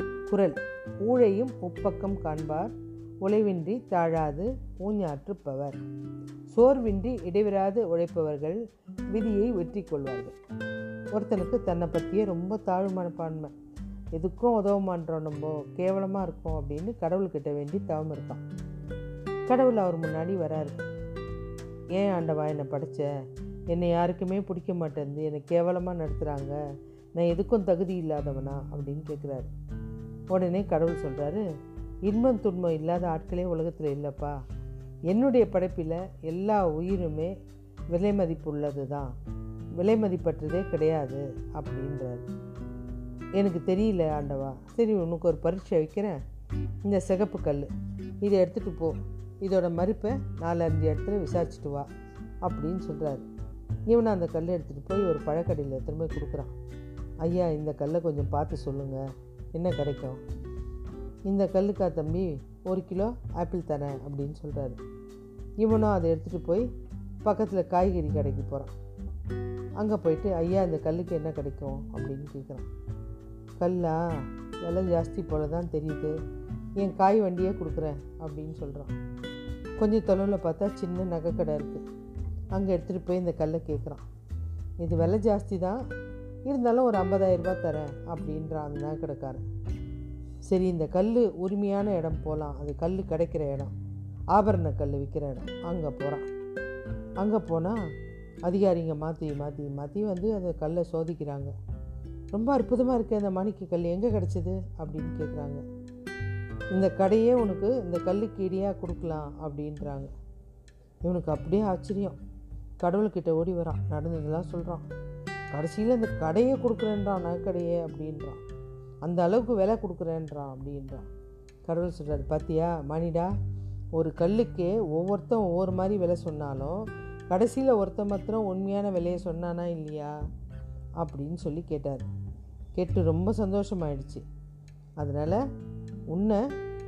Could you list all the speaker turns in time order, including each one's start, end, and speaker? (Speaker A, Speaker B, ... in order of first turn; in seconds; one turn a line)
Speaker A: 0.3-5.8
Speaker A: 6.5-8.6
Speaker A: 9.1-10.3
Speaker A: 11.1-13.5
Speaker A: 14.1-18.4
Speaker A: 19.5-20.8
Speaker A: 21.9-23.1
Speaker A: 23.7-26.6
Speaker A: 27.1-29.5
Speaker A: 30.3-31.4
Speaker A: 32.0-34.4
Speaker A: 35.1-37.3
Speaker A: 37.9-39.1
Speaker A: 39.8-42.2
Speaker A: 43.4-46.2
Speaker A: 46.9-47.7
Speaker A: 48.2-51.9
Speaker A: 52.4-53.2
Speaker A: 53.9-56.5
Speaker A: 57.2-59.0
Speaker A: 59.5-60.2
Speaker A: 61.3-64.8
Speaker A: 65.6-66.7
Speaker A: 67.2-68.7
Speaker A: 69.8-72.7
Speaker A: 73.6-74.0
Speaker A: 74.6-76.2
Speaker A: 76.8-78.9
Speaker A: 79.8-81.8
Speaker A: 82.5-84.0
Speaker A: 84.8-85.8
Speaker A: 86.5-89.4
Speaker A: 90.5-93.7
Speaker A: 94.3-96.3
Speaker A: 97.2-97.8
Speaker A: 98.5-101.5
Speaker A: 102.3-105.6
Speaker A: 106.7-110.1
Speaker A: 111.0-112.2
Speaker A: 112.8-114.8
Speaker A: 115.5-118.4
Speaker A: 119.0-121.0
Speaker A: 121.7-123.3
Speaker A: 124.0-130.2
Speaker A: 131.0-132.1
Speaker A: 132.8-134.2
Speaker A: 135.0-135.4
Speaker A: 136.1-136.4